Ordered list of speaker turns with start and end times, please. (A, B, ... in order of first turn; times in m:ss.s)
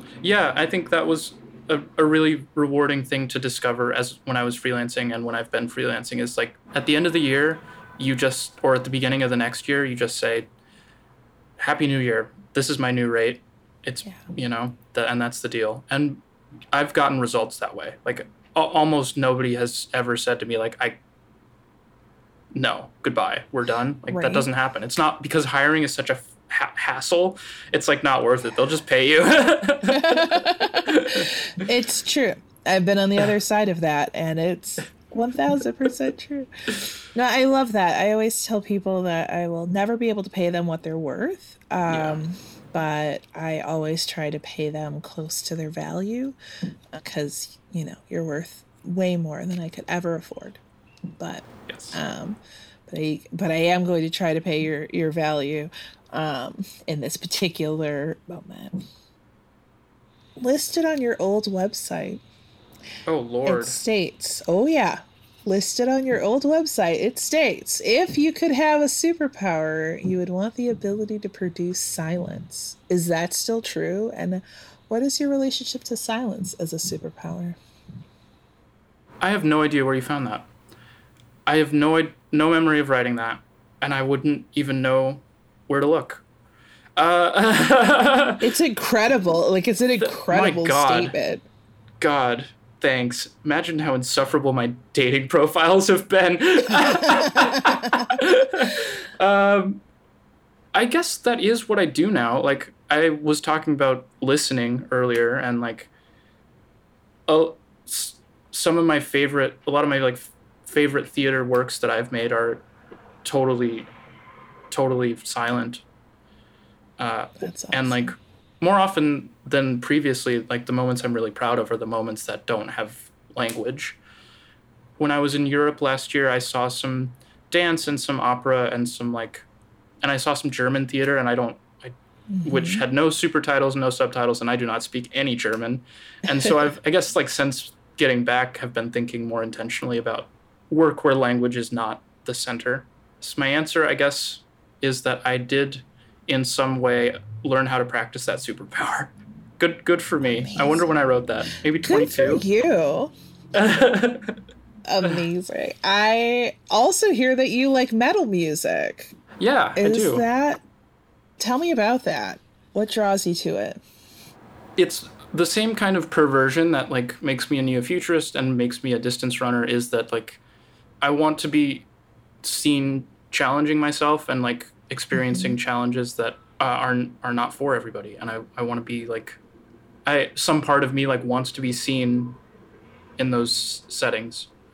0:00.2-0:10.5 A
0:11.6-0:21.0 A
0:22.5-0:31.3 A
0:24.1-0:24.4 B
0:29.8-0:46.3 B
0:41.9-0:42.2 A
0:46.9-0:50.6 B
0:51.1-0:58.8 B
0:51.7-0:52.0 A
1:00.4-1:02.2 B
1:03.0-1:03.8 A
1:03.4-1:17.6 B
1:19.2-1:20.5 A
1:21.4-1:26.2 A
1:27.0-1:28.4 A
1:28.4-1:31.4 B
1:30.0-1:31.1 A
1:32.0-1:39.8 A
1:37.1-1:38.0 B
1:40.7-1:45.9 A
1:47.3-1:52.6 A
1:53.2-1:53.9 A
1:54.7-1:55.8 A
1:57.0-2:04.0 A
1:57.4-1:58.1 B
2:05.0-2:09.4 A
2:10.0-2:32.4 A
2:12.3-2:12.8 B
2:30.3-2:30.8 B
2:31.8-2:33.1 B
2:33.5-2:34.4 A
2:34.8-2:39.1 B
2:39.4-2:40.2 A
2:39.8-2:40.6 B
2:41.4-2:43.8 B
2:44.8-2:50.4 A
2:51.0-2:51.8 A
2:52.4-2:59.4 A
2:55.1-2:55.6 B
3:00.0-3:02.4 A
3:03.2-3:04.5 A